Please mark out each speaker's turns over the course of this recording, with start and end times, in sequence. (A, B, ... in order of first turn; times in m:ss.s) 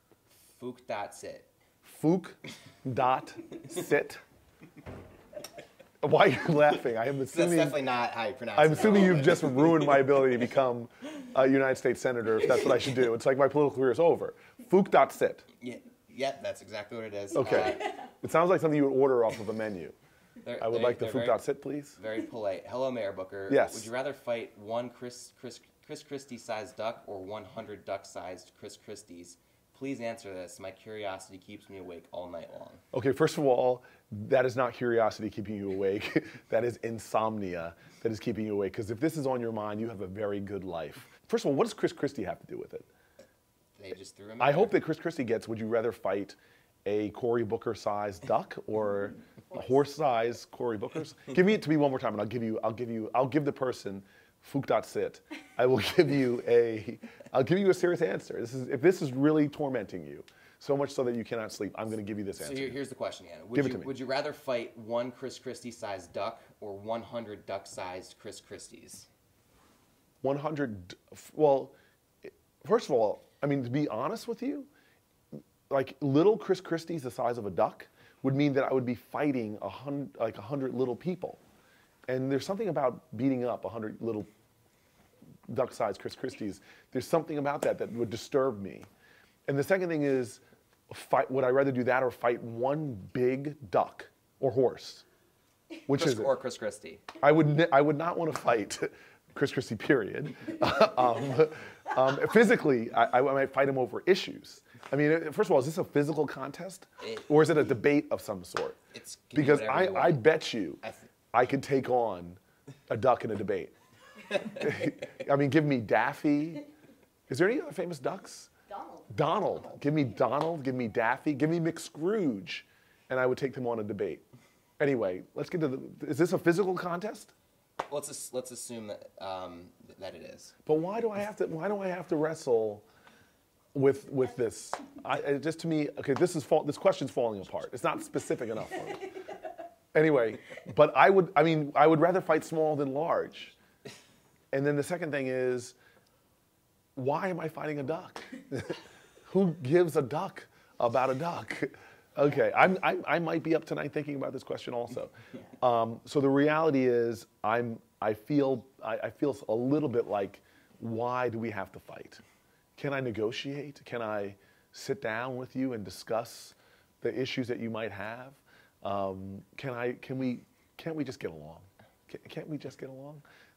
0:00.5-0:01.5 A
0:01.8-0:04.2 B
0:06.0-0:07.8 B
0:07.3-0:10.0 A
0:08.6-0:15.4 B
0:15.6-0:18.0 A
0:17.3-0:20.0 B
0:20.4-0:21.4 A
0:20.6-0:22.0 B
0:22.0-0:32.8 A
0:23.5-0:23.9 B
0:32.9-0:42.9 B
0:43.8-0:44.8 A
0:44.4-1:02.8 B
1:02.4-1:09.1 A
1:03.5-1:03.9 B
1:10.2-1:14.7 B
1:15.7-1:21.4 B
1:22.1-1:24.3 B
1:25.5-1:28.9 B
1:29.5-1:35.0 B
1:35.9-1:36.3 B
1:35.9-1:37.0 A
1:37.2-1:48.8 B
1:48.9-1:50.2 A
1:49.3-1:50.8 B
1:50.8-1:51.1 A
1:51.3-1:53.7 B
1:54.3-1:56.6 B
1:57.3-1:58.5 B
1:59.1-2:04.2 B
2:04.8-2:07.3 B
2:07.8-2:10.5 A
2:10.7-2:12.8 B
2:13.7-2:19.1 B
2:19.9-2:23.5 B
2:24.5-2:25.7 B
2:26.9-2:42.2 B
2:42.8-2:53.2 B